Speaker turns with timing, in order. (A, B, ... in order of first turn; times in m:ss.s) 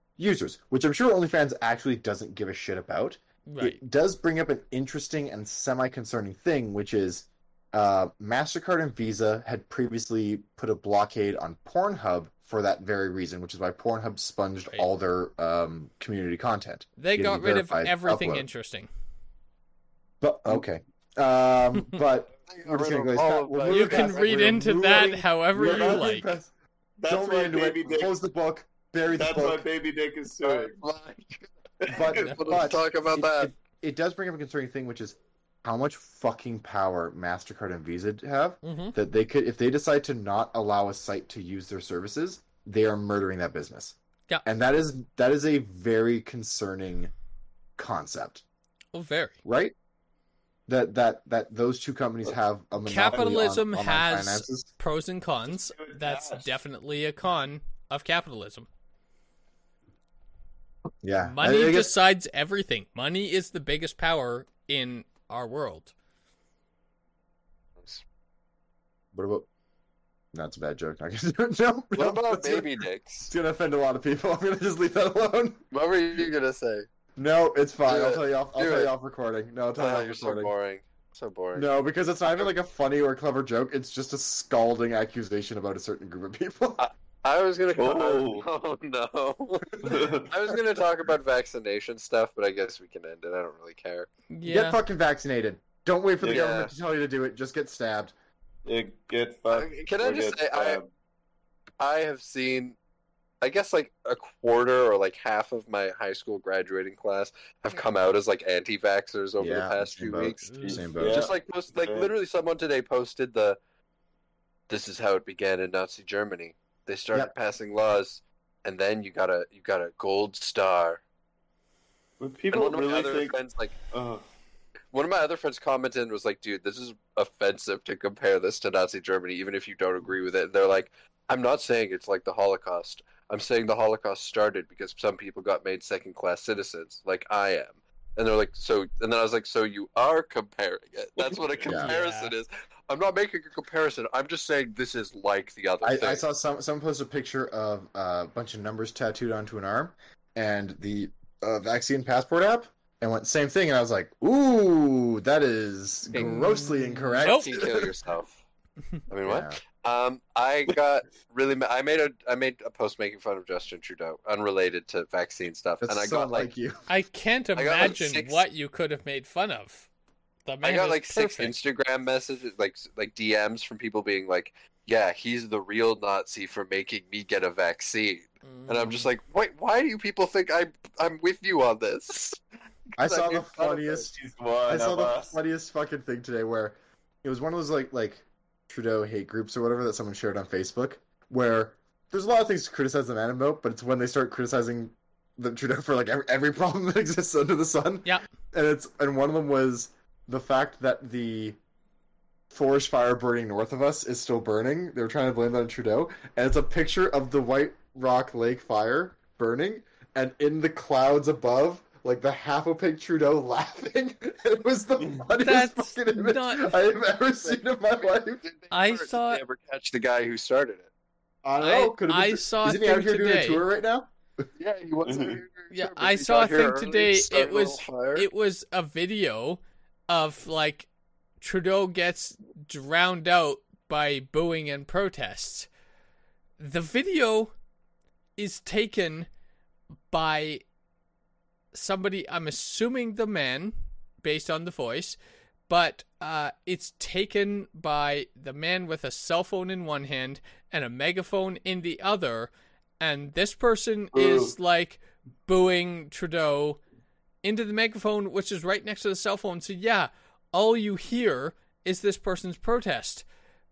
0:00.2-0:18.5 A
0:03.5-0:03.8 B
0:17.0-0:18.9 B
0:20.2-0:26.5 A
0:22.5-0:24.4 C
0:23.7-0:26.3 B
0:25.6-0:26.1 D
0:27.0-0:28.1 D
0:27.1-0:29.6 A
0:29.1-0:30.8 D
0:30.4-0:33.5 C
0:31.8-0:32.6 D
0:31.9-0:47.1 A
0:32.2-0:32.4 B
0:38.6-0:39.0 B
0:47.8-0:48.4 A
0:48.9-0:49.4 B
0:49.4-0:49.7 A
0:50.7-0:54.7 A
0:52.8-0:58.7 B
0:53.1-0:53.4 D
0:55.5-0:56.6 D
1:01.0-1:01.9 A
1:01.2-1:05.9 B
1:09.1-1:09.4 A
1:10.3-1:15.6 A
1:12.0-1:13.3 C
1:15.7-1:16.9 C
1:17.2-1:20.5 A
1:17.8-1:18.9 C
1:19.8-1:21.7 C
1:21.5-1:26.8 A
1:26.8-1:34.1 C
1:27.8-1:28.5 D
1:29.8-1:30.3 D
1:34.3-1:34.8 B
1:34.4-1:38.1 A
1:36.2-1:36.6 D
1:36.2-1:36.7 C
1:38.6-1:40.9 D
1:39.5-1:40.8 C
1:41.8-1:42.8 C
1:43.4-1:50.5 C
1:49.4-1:51.3 A
1:50.6-1:52.1 D
1:51.1-1:53.6 C
1:54.7-2:01.0 C
2:02.2-2:03.4 D
2:02.5-2:03.7 C
2:03.9-2:04.2 D
2:04.9-2:26.2 C
2:21.2-2:21.7 D
2:21.6-2:21.9 A
2:21.8-2:22.3 B
2:25.8-2:37.9 A
2:36.1-2:38.4 C
2:37.2-2:37.5 B
2:39.1-2:46.5 C
2:39.2-2:39.6 A
2:45.8-2:46.8 A
2:46.9-2:49.9 B
2:47.6-2:48.4 C
2:50.4-2:51.5 B
2:50.6-3:02.4 C
2:58.4-2:59.1 B
3:03.0-3:04.1 A
3:03.0-3:03.8 C
3:03.2-3:05.4 D
3:04.7-3:21.6 A
3:22.5-3:38.4 A
3:35.4-3:36.8 B
3:38.4-3:40.9 C
3:38.7-3:39.4 B
3:41.4-3:44.1 A
3:41.6-3:43.6 B
3:44.6-3:48.3 C
3:45.0-3:45.4 D
3:45.7-3:50.9 B
3:51.4-3:55.7 B
3:56.6-3:57.5 B
3:58.4-3:59.3 B
4:00.1-4:00.6 B
4:01.7-4:05.2 B
4:05.7-4:16.8 B
4:14.1-4:14.5 D
4:17.4-4:23.2 B